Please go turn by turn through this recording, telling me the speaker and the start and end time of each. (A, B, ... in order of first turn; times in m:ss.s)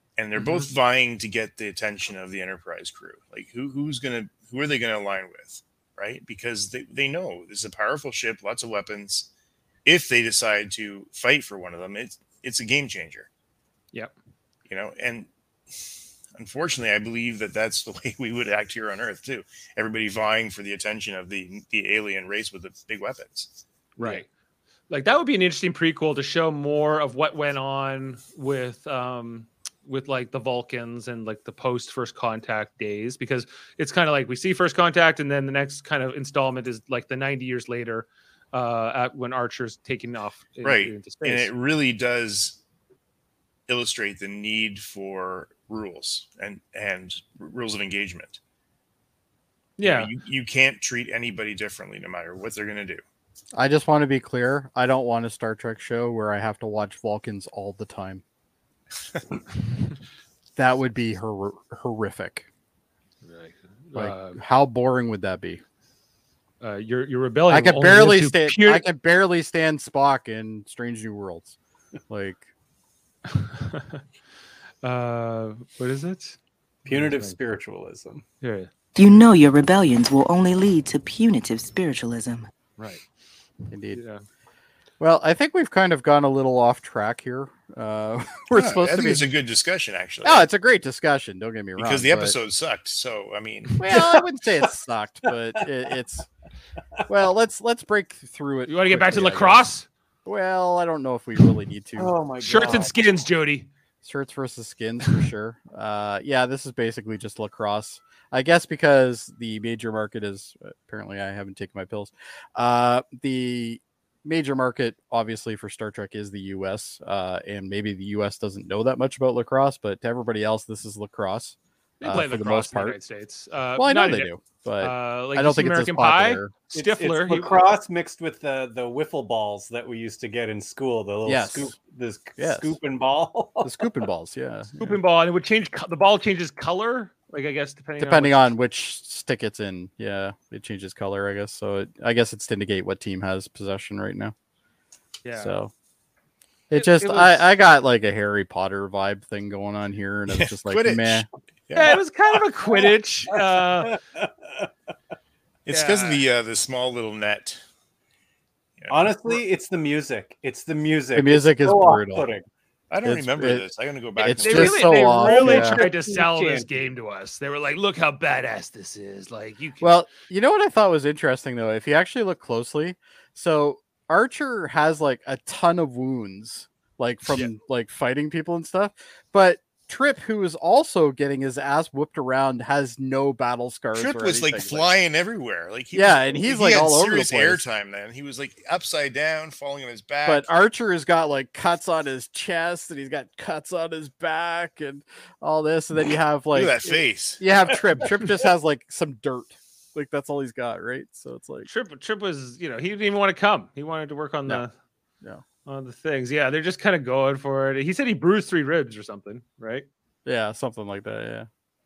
0:00.2-0:09.3 A
0:09.8-0:13.3 A
0:14.7-0:15.3 A
0:16.4-0:24.2 A
0:24.0-0:24.3 B
0:24.9-0:41.5 B
0:40.6-0:42.6 A
0:43.7-0:48.4 A
0:49.8-0:50.1 B
0:49.8-0:53.0 A
0:53.5-0:58.2 C
1:00.6-1:02.5 C
1:03.2-1:04.4 B
1:04.0-1:05.6 C
1:06.6-1:08.9 B
1:07.5-1:11.6 C
1:12.1-1:12.4 C
1:13.3-1:14.0 B
1:14.8-1:17.4 B
1:16.9-1:18.2 D
1:18.4-1:18.7 B
1:19.0-1:22.5 E
1:22.8-1:23.0 B
1:23.7-1:24.0 C
1:23.9-1:24.2 B
1:25.0-1:29.2 C
1:28.5-1:30.5 A
1:30.2-1:32.4 C
1:31.8-1:33.9 A
1:33.8-1:36.3 C
1:33.9-1:34.2 D
1:37.1-1:39.6 C
1:38.7-1:39.9 B
1:40.3-1:42.1 C
1:42.0-1:42.9 D
1:42.4-1:43.7 B
1:44.0-2:03.0 C
2:02.0-2:07.7 B
2:03.8-2:06.5 C
2:06.7-2:13.8 D
2:11.2-2:11.8 C
2:12.4-2:12.7 C
2:13.6-2:15.0 C
2:14.8-2:18.5 B
2:18.0-2:24.3 C
2:25.2-2:25.6 B
2:25.4-2:25.7 C
2:26.7-2:31.3 C
2:26.7-2:27.5 B
2:30.3-2:32.0 A
2:31.7-2:34.0 B
2:32.7-2:34.7 D
2:35.7-2:37.6 A
2:35.7-2:36.2 B
2:38.8-2:39.4 A
2:38.9-2:42.4 D
2:41.2-2:42.3 C
2:42.9-2:44.9 A
2:43.0-2:43.7 C
2:44.2-2:45.8 C
2:44.4-2:49.9 B
2:44.8-2:46.7 D
2:49.8-3:04.9 C
3:04.0-3:10.5 A
3:05.9-3:07.6 C
3:10.2-3:21.7 C
3:16.5-3:17.4 A
3:21.7-3:24.7 B
3:25.7-3:29.9 B
3:30.2-3:31.5 C